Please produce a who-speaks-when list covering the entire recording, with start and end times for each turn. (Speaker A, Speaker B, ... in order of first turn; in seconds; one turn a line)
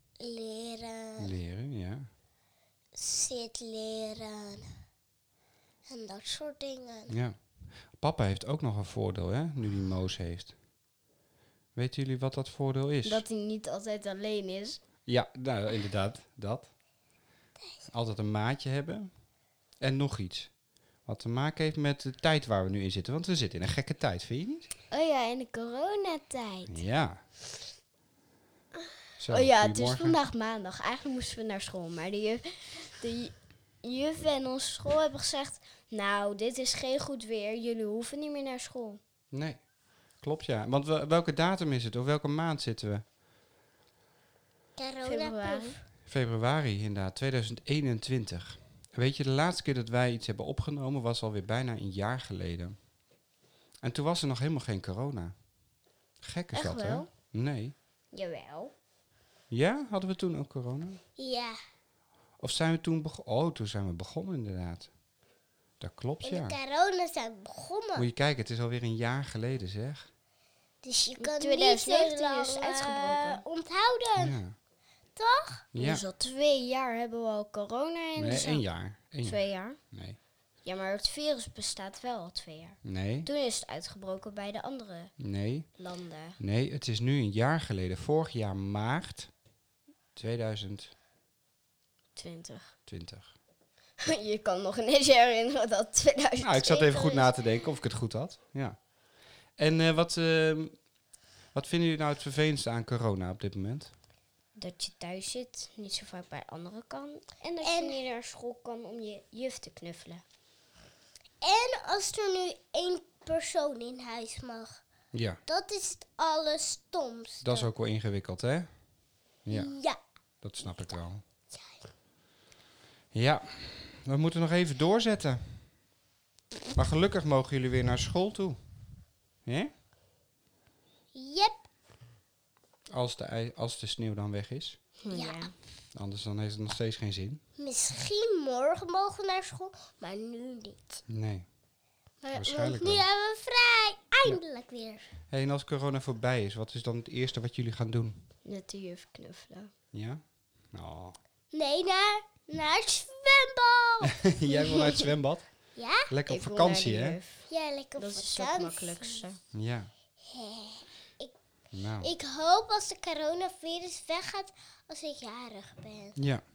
Speaker A: 0.2-1.3
Speaker B: 1.2-2.1
Speaker A: 3.0-4.6
Speaker A: 5.9-7.2
Speaker B: 7.1-7.4
Speaker B: 8.0-10.5
Speaker B: 11.8-13.2
Speaker C: 13.0-14.8
Speaker B: 15.1-16.7
Speaker B: 17.9-19.1
Speaker B: 19.8-20.5
Speaker B: 21.1-24.7
Speaker C: 24.9-26.8
Speaker B: 26.7-27.2
Speaker B: 29.2-30.2
Speaker C: 29.3-39.0
Speaker B: 39.3-39.6
Speaker B: 40.2-43.0
Speaker A: 44.8-45.8
Speaker C: 45.0-45.8
Speaker B: 46.1-52.8
Speaker B: 53.8-55.3
Speaker B: 56.2-57.8
Speaker C: 56.5-57.1
Speaker C: 58.1-58.7
Speaker B: 59.5-61.0
Speaker A: 61.2-61.6
Speaker B: 62.4-64.9
Speaker B: 65.8-66.5
Speaker A: 66.2-68.1
Speaker B: 68.0-70.1
Speaker A: 70.8-74.4
Speaker C: 71.2-73.4
Speaker B: 74.2-74.5
Speaker A: 75.2-75.7
Speaker B: 75.7-76.1
Speaker C: 75.8-78.6
Speaker B: 78.2-79.4
Speaker C: 79.2-79.8
Speaker B: 79.9-80.2
Speaker C: 80.6-85.1
Speaker B: 82.8-83.3
Speaker B: 85.2-85.7
Speaker C: 85.8-86.4
Speaker B: 86.4-89.3
Speaker B: 90.2-90.9
Speaker C: 92.2-92.7
Speaker B: 92.9-93.3
Speaker C: 94.0-97.1
Speaker B: 96.4-98.8
Speaker B: 99.6-100.8
Speaker B: 101.5-103.9
Speaker C: 104.6-110.2
Speaker A: 107.6-108.0
Speaker A: 111.4-114.8
Speaker B: 115.1-115.4
Speaker A: 115.5-117.7
Speaker B: 117.4-118.7
Speaker B: 119.5-119.7
Speaker A: 119.5-120.0
Speaker B: 120.4-121.2
Speaker A: 121.5-121.9
Speaker B: 123.1-125.5
Speaker B: 126.8-128.6
Speaker B: 129.5-129.7
Speaker A: 131.1-131.5
Speaker B: 132.9-134.8
Speaker C: 135.0-135.5
Speaker A: 135.1-135.5
Speaker B: 135.9-137.4
Speaker A: 137.6-141.0
Speaker B: 141.1-141.5
Speaker A: 142.2-145.0
Speaker B: 142.3-143.1
Speaker B: 145.3-148.2
Speaker C: 148.4-149.7
Speaker B: 149.9-151.2
Speaker A: 151.5-154.2
Speaker B: 154.1-155.4
Speaker A: 155.8-156.1
Speaker B: 156.1-157.2
Speaker C: 156.3-157.5
Speaker A: 157.5-159.2
Speaker C: 158.0-159.4
Speaker B: 159.5-159.9
Speaker A: 160.3-161.3
Speaker B: 161.7-162.1
Speaker A: 162.0-166.2
Speaker B: 166.2-166.4